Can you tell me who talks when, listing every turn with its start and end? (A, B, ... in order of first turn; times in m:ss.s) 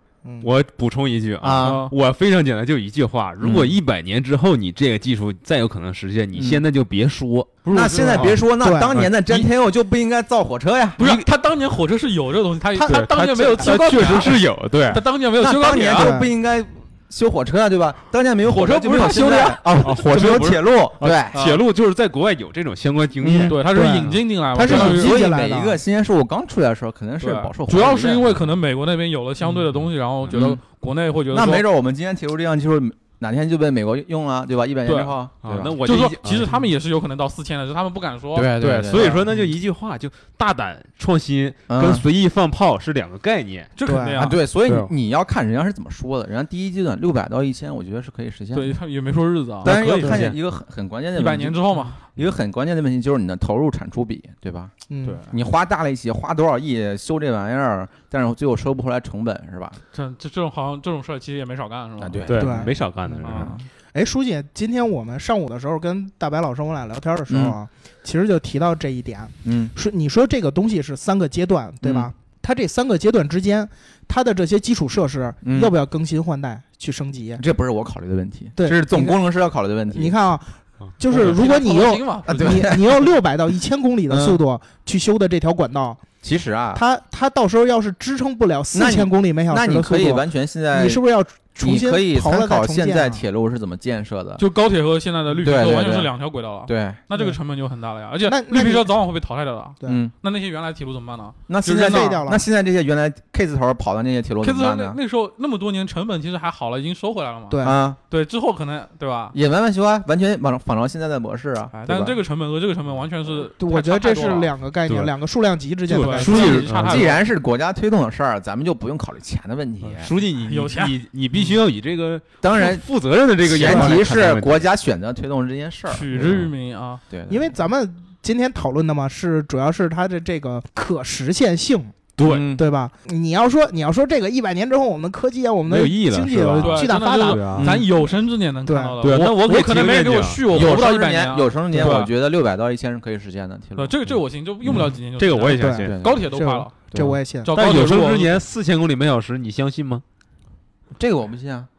0:00.2-0:00.5 A
0:00.4-0:08.4 B
0:01.4-0:01.9 C
0:01.6-0:01.9 D
0:03.4-0:03.8 C
0:06.3-0:06.6 C
0:07.6-0:08.4 D
0:07.7-0:11.2 C
0:08.6-0:09.0 A
0:08.9-0:09.2 B
0:11.0-0:16.2 D
0:12.8-0:13.8 A
0:12.8-0:15.0 B
0:15.4-0:21.4 C
0:15.9-0:16.3 A
0:18.5-0:19.6 D
0:19.8-0:24.2 B
0:21.3-0:21.6 D
0:23.2-0:23.6 C
0:23.5-0:25.2 D
0:23.7-0:25.8 A
0:24.6-0:28.3 C
0:27.2-0:31.6 D
0:30.3-0:30.6 C
0:31.3-0:35.8 C
0:34.9-0:35.1 D
0:35.4-0:36.5 B
0:35.8-0:39.2 D
0:38.4-0:39.2 C
0:38.6-0:43.7 B
0:41.7-0:42.0 C
0:43.8-0:44.4 D
0:43.8-0:44.3 A
0:44.2-0:48.8 C
0:44.6-0:44.9 B
0:48.5-0:50.2 D
0:49.6-0:50.4 B
0:49.6-0:54.7 C
0:51.2-0:52.0 D
0:54.9-0:55.2 A
0:55.0-0:55.3 D
0:55.3-0:59.8 C
0:59.9-1:02.3 D
1:02.0-1:03.7 C
1:02.3-1:03.6 B
1:02.4-1:02.7 A
1:03.2-1:03.6 D
1:03.9-1:17.4 A
1:07.3-1:07.6 C
1:09.4-1:09.7 C
1:11.8-1:12.1 C
1:15.4-1:15.8 C
1:17.4-1:20.2 C
1:18.6-1:19.2 A
1:19.9-1:26.0 A
1:21.1-1:22.7 D
1:22.3-1:23.1 C
1:24.1-1:24.4 C
1:26.2-1:26.8 C
1:26.8-1:33.2 A
1:28.7-1:31.0 C
1:31.6-1:34.4 C
1:34.4-1:42.2 D
1:35.4-1:36.1 C
1:36.7-1:37.0 C
1:38.3-1:38.9 A
1:39.8-1:40.1 C
1:41.5-1:45.0 C
1:41.7-1:42.4 A
1:44.4-1:49.4 D
1:47.5-1:47.8 A
1:47.6-1:48.0 C
1:49.3-1:52.2 C
1:51.7-1:54.5 D
1:53.6-1:56.7 A
1:54.9-1:55.1 B
1:55.9-1:57.1 B
1:55.9-1:57.2 D
1:56.2-2:00.1 C
1:59.9-2:04.7 B
2:00.4-2:01.0 D
2:02.4-2:02.9 C
2:03.4-2:06.2 C
2:03.7-2:04.0 A
2:05.9-2:07.0 D
2:06.2-2:06.5 B
2:07.1-2:07.5 C
2:07.3-2:12.0 A
2:12.2-2:12.5 B
2:12.2-2:12.6 C
2:12.6-2:17.5 A
2:15.7-2:17.7 B
2:16.6-2:22.1 D
2:17.5-2:17.9 C
2:18.7-2:19.0 A
2:19.0-2:20.6 B
2:20.5-2:23.9 C
2:23.8-2:26.8 D
2:25.2-2:26.0 B
2:25.6-2:27.5 A
2:25.8-2:26.2 C
2:26.9-2:27.2 C
2:27.4-2:28.4 D
2:27.5-2:30.0 B
2:31.0-2:31.7 C